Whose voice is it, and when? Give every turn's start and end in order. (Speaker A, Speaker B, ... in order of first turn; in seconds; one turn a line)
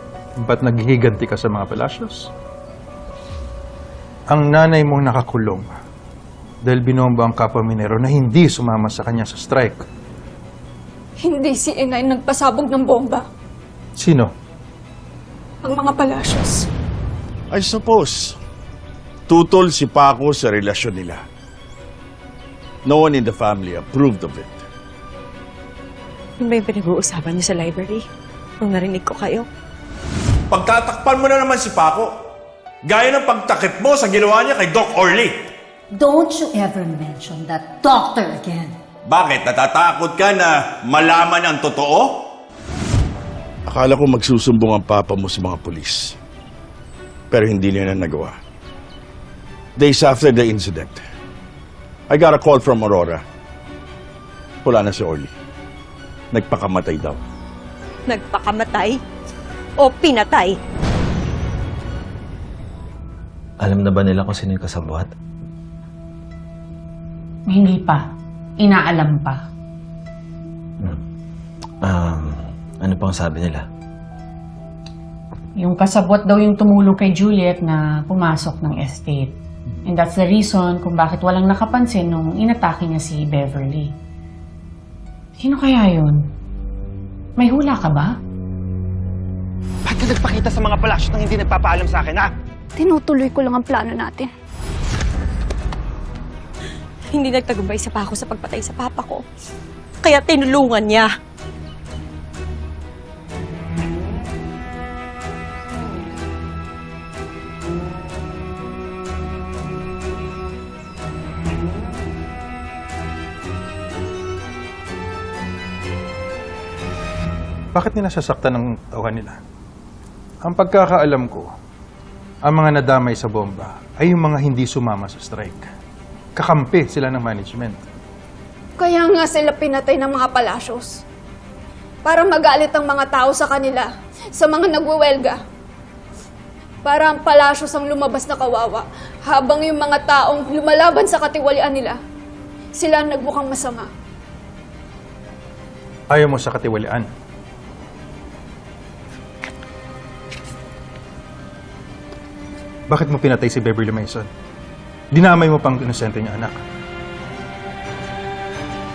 Speaker A: 0.4-2.3
Speaker A: 4.3-5.7
Speaker A: 6.6-9.8
Speaker B: 11.2-13.2
Speaker A: 14.0-14.3
Speaker B: 15.6-16.7
Speaker C: 17.5-18.4
Speaker C: 19.3-21.2
Speaker C: 22.9-24.6
Speaker D: 26.4-28.0
Speaker D: 28.6-29.5
Speaker C: 30.5-32.1
Speaker C: 32.8-35.4
Speaker E: 35.9-38.8
Speaker C: 39.1-42.2
Speaker C: 43.7-46.1
Speaker C: 47.3-48.4
Speaker C: 49.8-51.0
Speaker C: 52.1-53.2
Speaker C: 54.6-55.3
Speaker C: 56.3-57.2
Speaker D: 58.1-59.0
Speaker D: 59.8-60.6
Speaker F: 63.6-65.1
Speaker G: 67.5-68.0
Speaker G: 68.6-69.5
Speaker F: 71.8-73.7
Speaker G: 75.6-83.9
Speaker G: 85.4-86.2
Speaker G: 87.4-88.1
Speaker H: 89.9-92.3
Speaker B: 92.8-94.3
Speaker D: 97.1-99.2
Speaker D: 100.0-101.1
Speaker A: 117.8-119.4
Speaker A: 120.4-121.5
Speaker A: 122.5-125.7
Speaker A: 126.3-127.8
Speaker B: 128.8-131.0
Speaker B: 132.0-135.4
Speaker B: 136.8-142.0
Speaker B: 142.8-143.9
Speaker A: 146.1-147.1
Speaker A: 152.9-154.3
Speaker A: 155.1-156.6